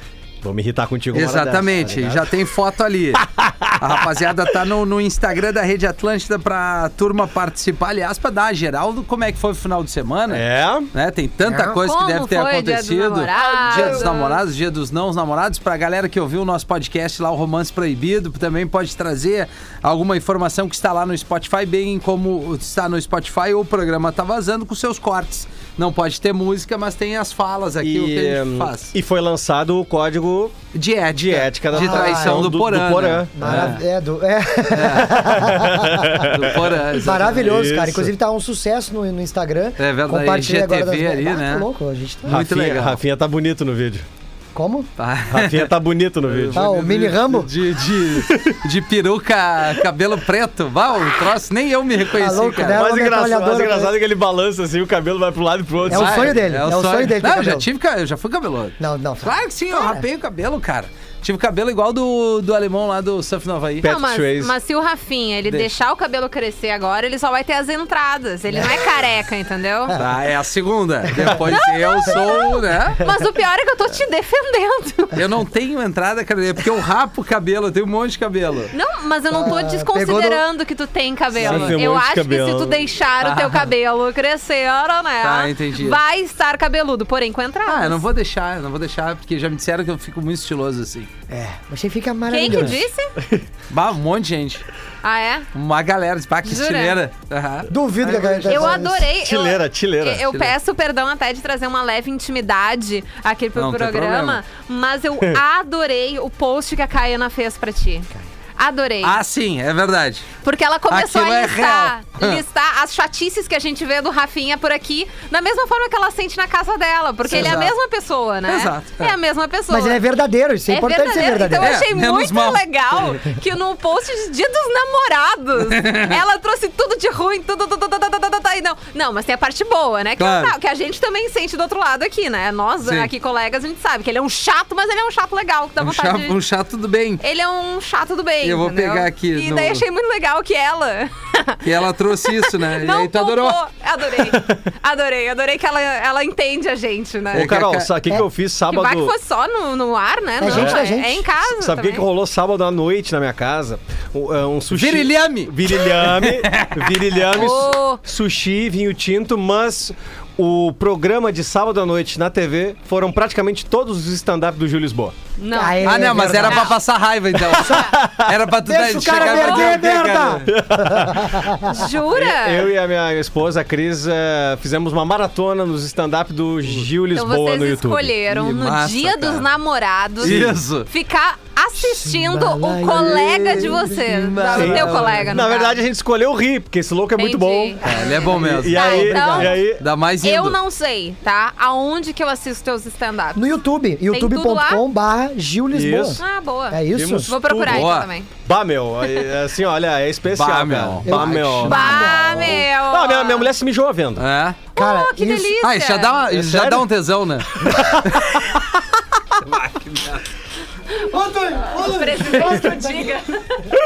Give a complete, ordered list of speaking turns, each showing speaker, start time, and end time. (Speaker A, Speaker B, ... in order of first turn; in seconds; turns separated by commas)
Speaker A: 0.4-2.4, Speaker B: 1.1-28.9, Speaker A: 3.2-3.9, Speaker A: 10.3-10.9, Speaker C: 11.5-11.7, Speaker D: 11.8-14.3, Speaker C: 13.3-14.3, Speaker A: 27.8-30.6, Speaker B: 30.7-33.8, Speaker A: 31.1-33.8, Speaker C: 31.7-32.5, Speaker C: 33.4-36.2, Speaker B: 34.7-35.6, Speaker A: 35.3-36.6, Speaker B: 36.1-37.5, Speaker C: 36.9-42.4, Speaker A: 37.2-38.1, Speaker B: 39.8-41.6, Speaker B: 42.2-43.0, Speaker A: 42.3-44.0, Speaker C: 44.5-44.9, Speaker B: 45.0-45.7, Speaker A: 45.3-46.6, Speaker B: 46.3-52.8, Speaker C: 46.5-47.5, Speaker A: 48.2-48.6, Speaker C: 52.1-53.9, Speaker A: 52.6-56.5, Speaker C: 55.9-57.6, Speaker B: 55.9-63.9, Speaker C: 58.8-60.0, Speaker A: 63.8-64.5, Speaker D: 63.8-70.0, Speaker B: 65.5-65.7, Speaker B: 70.0-73.0, Speaker D: 71.5-75.2, Speaker B: 75.1-78.7, Speaker D: 78.7-88.0, Speaker C: 79.3-80.4, Speaker A: 81.3-82.9, Speaker B: 81.4-81.7, Speaker B: 83.2-83.7, Speaker B: 85.2-86.0, Speaker B: 87.7-91.1, Speaker C: 91.3-92.8, Speaker D: 92.3-93.1, Speaker B: 93.7-94.6, Speaker D: 95.0-95.5, Speaker B: 95.5-98.7, Speaker D: 96.4-97.0, Speaker C: 97.7-99.1, Speaker D: 98.5-109.2, Speaker A: 98.9-100.3, Speaker B: 103.5-104.4, Speaker B: 109.0-110.3, Speaker D: 110.4-120.0, Speaker B: 110.9-112.4, Speaker B: 117.3-117.8, Speaker B: 118.5-119.1, Speaker C: 119.7-121.8, Speaker D: 120.7-136.4, Speaker B: 121.6-122.6, Speaker B: 125.7-126.2, Speaker B: 130.2-130.5, Speaker B: 132.8-133.1, Speaker B: 135.8-137.2, Speaker D: 137.2-141.7, Speaker B: 138.4-139.8, Speaker B: 141.6-143.6, Speaker D: 142.2-147.5, Speaker A: 144.2-144.6, Speaker A: 147.3-149.1, Speaker B: 147.3-147.9, Speaker D: 148.7-152.1, Speaker C: 150.4-151.2, Speaker A: 150.5-150.9, Speaker A: 151.5-165.1, Speaker B: 154.7-156.9, Speaker D: 157.3-158.0, Speaker D: 165.4-166.7, Speaker C: 165.5-166.7, Speaker B: 165.8-170.5, Speaker A: 167.9-168.3, Speaker C: 168.7-171.8, Speaker D: 169.1-169.7, Speaker A: 170.5-178.2, Speaker D: 171.7-172.7, Speaker D: 177.1-185.8, Speaker B: 178.3-179.5, Speaker B: 180.2-180.9, Speaker A: 180.2-180.6, Speaker C: 181.8-185.2, Speaker B: 184.5-185.4, Speaker A: 184.5-189.8, Speaker D: 187.2-187.9, Speaker B: 187.8-188.9, Speaker D: 188.7-189.7, Speaker C: 188.7-189.5, Speaker B: 189.7-190.6, Speaker D: 190.2-193.4, Speaker C: 193.3-197.3, Speaker D: 194.1-194.8, Speaker A: 195.7-196.2, Speaker D: 196.2-198.3, Speaker A: 196.9-204.2, Speaker B: 197.7-198.1, Speaker B: 200.3-201.9, Speaker C: 201.1-202.6, Speaker D: 201.7-203.5, Speaker B: 204.2-204.6, Speaker C: 204.8-205.6, Speaker D: 204.8-206.2, Speaker B: 205.6-208.3, Speaker A: 206.3-206.9, Speaker B: 209.4-210.2, Speaker C: 211.1-213.2, Speaker D: 211.7-213.4